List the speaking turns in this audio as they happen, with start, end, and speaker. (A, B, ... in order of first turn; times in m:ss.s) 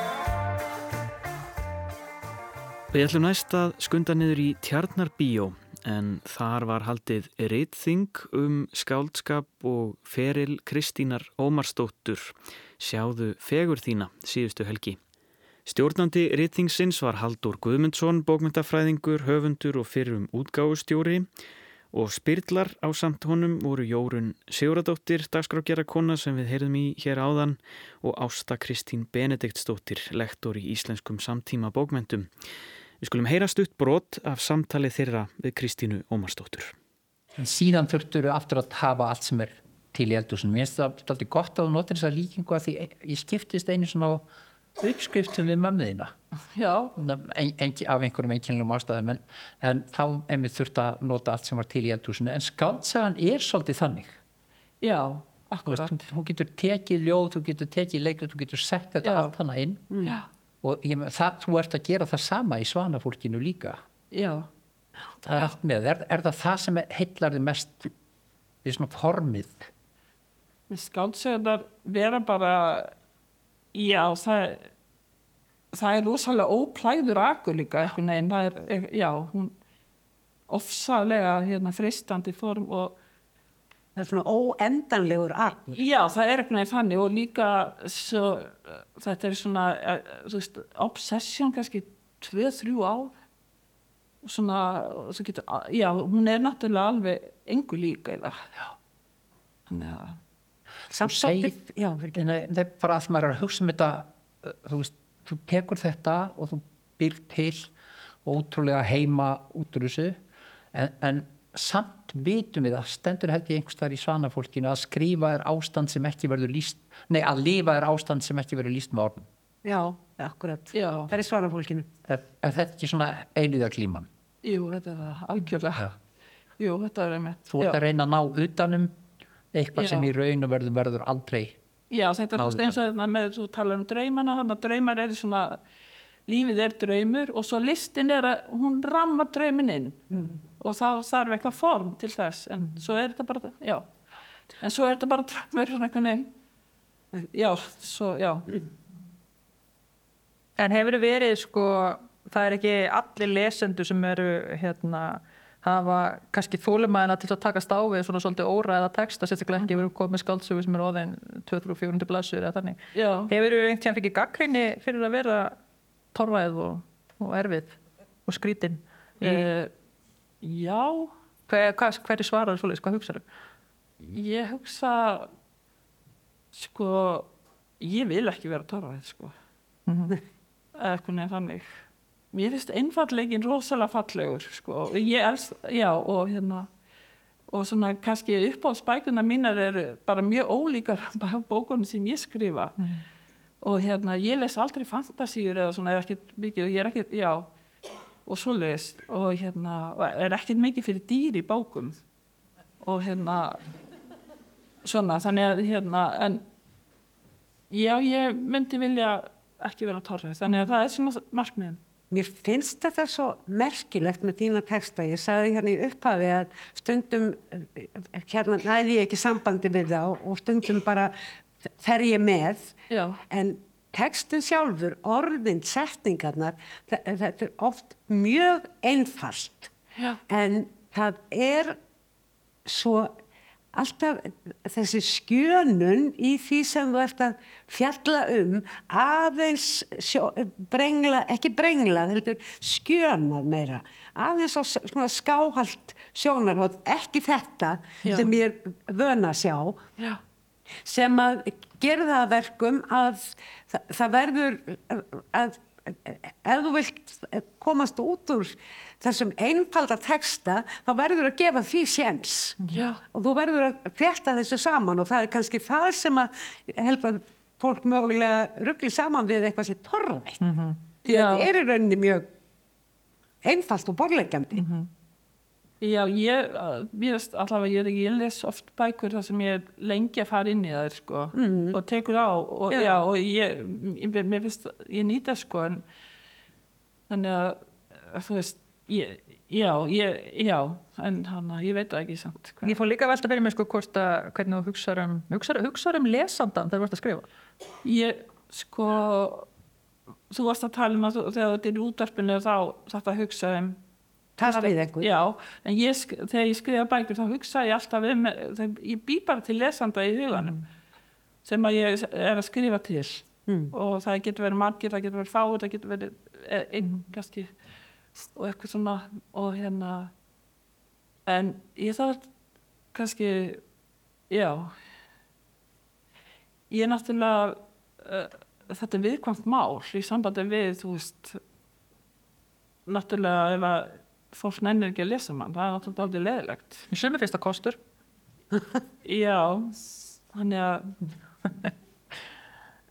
0:02.9-0:15.0 A
0:15.6-0:21.3 A
0:21.9-0:32.3 A
0:33.0-0:36.7 A
0:37.4-0:46.1 B
0:46.6-0:46.9 C
0:47.0-0:54.2 B
0:54.8-0:56.0 C
0:55.6-1:03.8 B
0:59.0-0:59.3 C
1:04.1-1:04.5 C
1:05.2-1:07.9 B
1:08.6-1:09.7 B
1:10.7-1:12.9 C
1:13.7-1:14.7 C
1:15.7-1:19.5 C
1:20.5-1:23.0 C
1:24.0-1:25.8 D
1:25.7-1:33.1 C
1:34.2-1:38.4 C
1:39.7-1:40.2 C
1:40.9-1:42.1 D
1:41.0-1:41.6 B
1:42.1-1:47.7 B
1:48.2-1:50.2 B
1:50.7-1:59.3 B
1:59.6-2:01.9 D
2:00.7-2:01.1 C
2:02.0-2:04.1 B
2:04.4-2:05.9 C
2:06.6-2:07.8 C
2:07.5-2:09.0 B
2:09.5-2:11.6 B
2:09.8-2:10.1 C
2:11.9-2:15.6 C
2:12.3-2:12.8 B
2:16.3-2:20.0 C
2:20.6-2:23.9 C
2:24.6-2:26.3 C
2:27.3-2:28.5 C
2:30.6-2:42.8 E
2:39.6-2:39.8 C
2:42.9-2:43.3 C
2:43.3-2:45.6 E
2:46.1-2:49.4 E
2:49.2-2:49.7 C
2:50.4-2:51.1 C
2:51.5-2:53.2 E
2:54.1-2:55.3 C
2:56.5-2:59.3 C
2:59.9-3:00.2 E
3:00.7-3:01.7 C
3:02.3-3:06.7 C
3:07.5-3:12.8 C
3:13.6-3:17.5 C
3:18.2-3:22.0 C
3:22.8-3:23.6 C
3:24.8-3:26.4 C
3:27.7-3:31.8 C
3:32.1-3:41.1 D
3:41.8-3:42.7 D
3:42.9-3:43.2 C
3:43.3-3:49.7 D
3:50.3-3:51.8 D
3:52.6-3:53.2 D
3:53.7-4:09.8 D
4:08.0-4:08.3 C
4:10.8-4:22.6 D
4:22.7-4:23.0 C
4:23.1-4:30.4 D
4:30.4-4:30.8 E
4:31.0-4:32.3 D
4:31.0-4:31.5 C
4:33.4-4:34.6 D
4:34.5-4:34.9 E
4:35.8-4:45.8 C
4:41.3-4:41.8 D
4:42.7-4:43.0 D
4:47.1-4:52.7 C
4:52.6-4:57.3 E
4:57.8-4:59.5 C
5:00.3-5:03.8 C
5:04.4-5:05.1 D
5:04.4-5:10.6 C
5:11.4-5:17.5 C
5:13.5-5:13.7 D
5:18.3-5:20.1 C
5:21.2-5:22.3 C
5:22.9-5:23.6 C
5:24.3-5:24.7 C
5:26.7-5:31.4 C
5:32.8-5:36.9 C
5:36.9-5:37.8 E
5:39.0-5:40.9 C